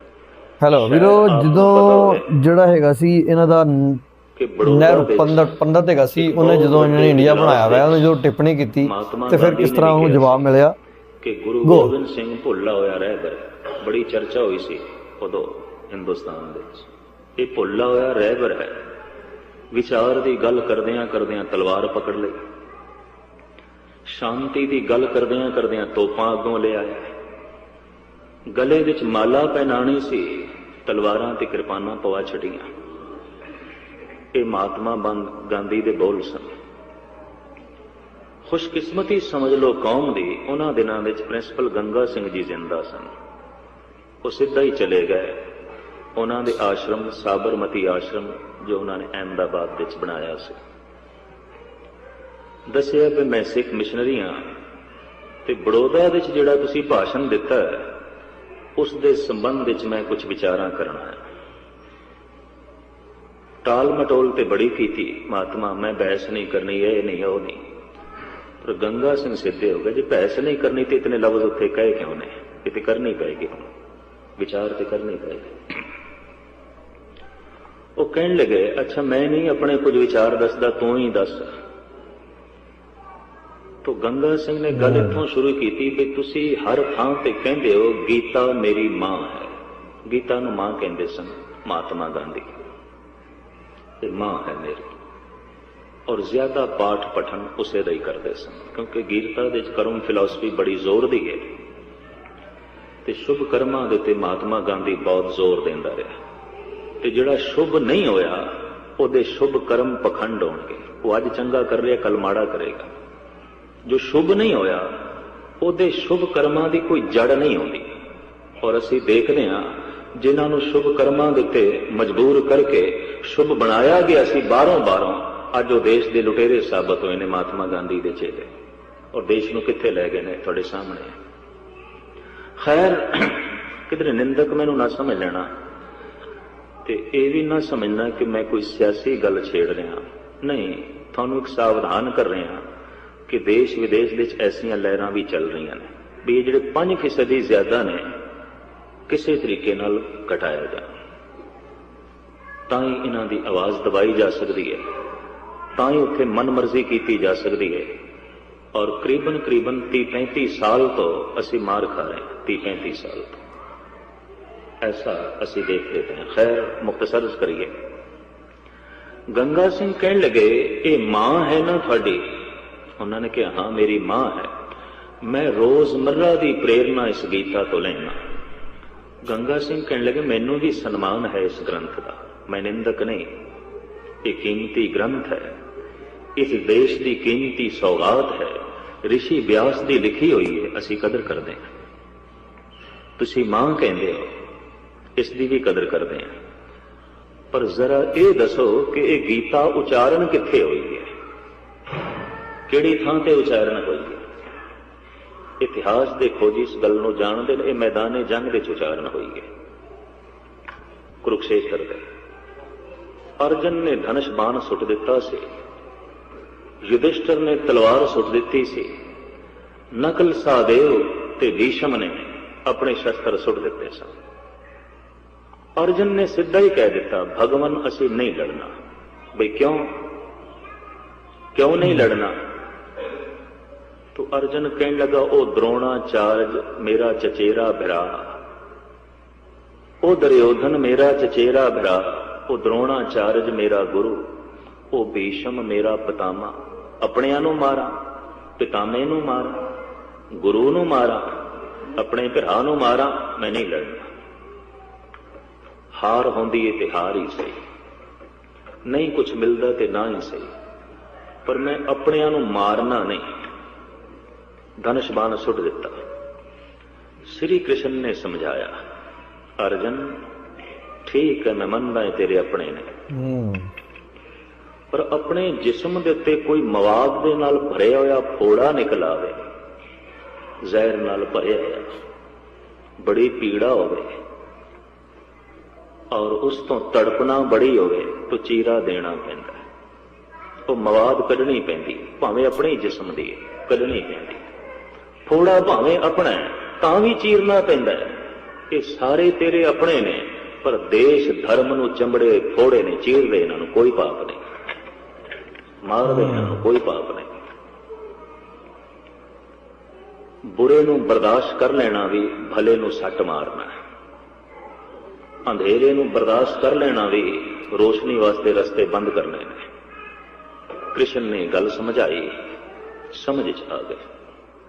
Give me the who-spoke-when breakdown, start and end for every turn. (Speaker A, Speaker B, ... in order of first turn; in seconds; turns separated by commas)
Speaker A: 0.6-4.0, Speaker B: 0.7-2.2, Speaker B: 4.3-5.5, Speaker A: 4.6-10.7, Speaker B: 6.2-8.1, Speaker B: 8.8-10.4, Speaker B: 11.2-16.9, Speaker A: 11.6-11.9, Speaker B: 17.4-18.8, Speaker B: 19.7-22.4, Speaker B: 24.1-27.0, Speaker B: 28.5-32.7, Speaker B: 34.3-36.5, Speaker B: 38.5-43.1, Speaker B: 44.2-45.4, Speaker B: 46.1-50.6, Speaker B: 52.7-54.5, Speaker B: 55.4-57.9, Speaker B: 58.8-61.2, Speaker B: 63.6-67.6, Speaker B: 68.6-73.6, Speaker B: 74.4-75.6, Speaker B: 78.0-81.5, Speaker B: 83.8-89.5, Speaker A: 84.8-85.2, Speaker B: 90.1-92.6, Speaker B: 94.0-94.9, Speaker B: 96.1-101.5, Speaker B: 103.0-106.1, Speaker B: 107.0-112.9, Speaker B: 113.8-114.9, Speaker B: 115.6-117.9, Speaker B: 118.6-128.5, Speaker B: 129.1-131.1, Speaker B: 132.6-135.5, Speaker B: 136.8-142.6, Speaker B: 143.3-148.0, Speaker B: 149.1-150.9, Speaker B: 152.7-154.8, Speaker B: 155.8-157.9, Speaker B: 158.7-163.4, Speaker B: 164.8-167.7, Speaker B: 169.3-172.4, Speaker B: 173.0-174.5, Speaker B: 175.2-178.2, Speaker B: 179.2-183.3, Speaker B: 184.2-185.5, Speaker B: 186.3-191.7, Speaker B: 193.2-194.3, Speaker B: 195.2-196.3, Speaker B: 197.5-201.1, Speaker B: 202.7-204.2, Speaker B: 205.6-209.5, Speaker B: 211.2-212.0, Speaker B: 213.4-215.4, Speaker B: 216.8-218.9, Speaker B: 219.9-224.1, Speaker B: 225.8-228.7, Speaker B: 229.3-229.9, Speaker B: 231.5-232.3, Speaker B: 234.1-238.2, Speaker B: 240.0-244.3, Speaker B: 244.9-247.9, Speaker B: 248.6-249.7, Speaker B: 250.4-251.3, Speaker B: 251.9-254.1, Speaker B: 255.9-257.6, Speaker B: 258.9-260.5, Speaker B: 261.4-263.2, Speaker B: 264.8-265.9, Speaker B: 267.3-268.7, Speaker B: 269.6-270.2, Speaker B: 271.0-272.9, Speaker A: 273.1-273.7, Speaker B: 274.9-279.3, Speaker B: 280.6-281.9, Speaker B: 283.0-284.1, Speaker B: 286.1-289.6, Speaker B: 290.7-294.4, Speaker B: 295.2-298.1, Speaker B: 298.7-304.4, Speaker B: 305.8-307.3, Speaker A: 306.0-306.6, Speaker B: 310.5-313.7, Speaker B: 315.5-319.6, Speaker B: 320.9-322.3, Speaker B: 323.1-324.0